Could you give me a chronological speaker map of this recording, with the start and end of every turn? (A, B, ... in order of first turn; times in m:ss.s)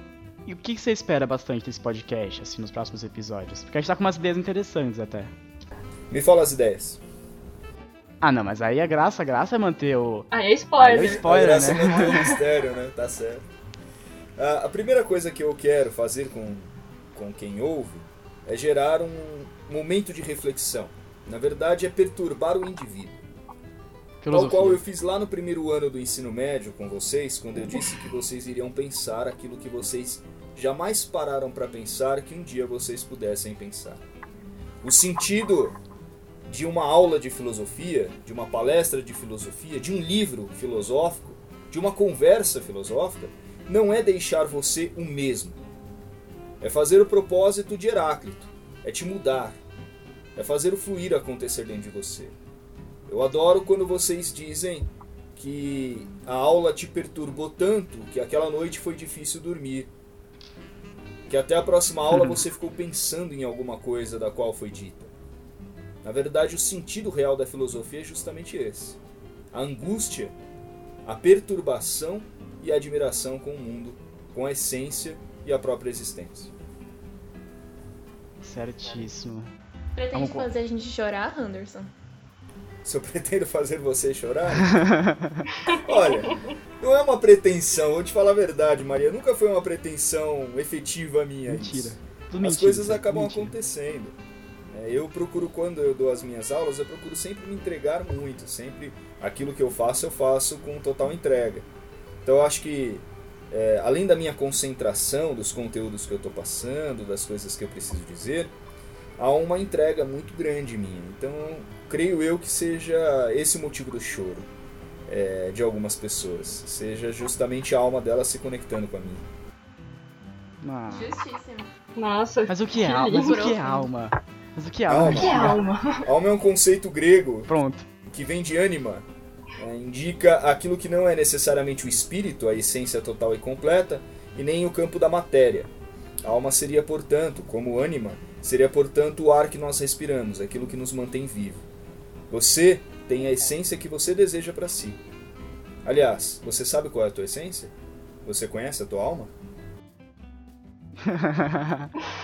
0:00.4-0:05.3 A
0:06.1-0:07.0 B
0:08.2-0:10.3 A
0:10.3-0:12.3 C
0:10.8-0:12.3 A
0:10.9-0:13.4 B
0:14.4-0:23.2 B
0:24.2-0:24.8 A
0:24.3-0:34.0 B
0:34.8-0:35.8 B
0:36.5-0:45.6 B
0:46.6-0:49.6 B
0:50.4-0:52.3 B
0:53.1-0:59.9 B
1:01.3-1:05.1 B
1:02.1-1:02.4 A
1:06.0-1:09.0 B
1:09.5-1:10.3 B
1:11.0-1:16.5 B
1:18.4-1:19.5 A
1:20.0-1:21.9 D
1:20.1-1:20.5 A
1:22.8-1:24.9 B
1:24.7-1:25.5 A
1:25.7-1:26.3 C
1:25.7-1:34.2 B
1:31.4-1:33.5 A
1:34.7-1:41.6 B
1:42.2-1:48.5 B
1:49.2-1:54.5 B
1:55.1-1:59.2 B
2:00.6-2:01.1 A
2:00.9-2:01.7 D
2:02.0-2:03.4 C
2:02.5-2:05.6 A
2:03.1-2:03.9 D
2:04.9-2:07.5 B
2:05.1-2:06.0 C
2:07.5-2:07.9 A
2:08.1-2:09.0 B
2:09.6-2:15.7 B
2:16.2-2:21.7 B
2:22.3-2:25.0 B
2:25.8-2:27.7 B
2:28.2-2:29.3 B
2:31.0-2:31.9 A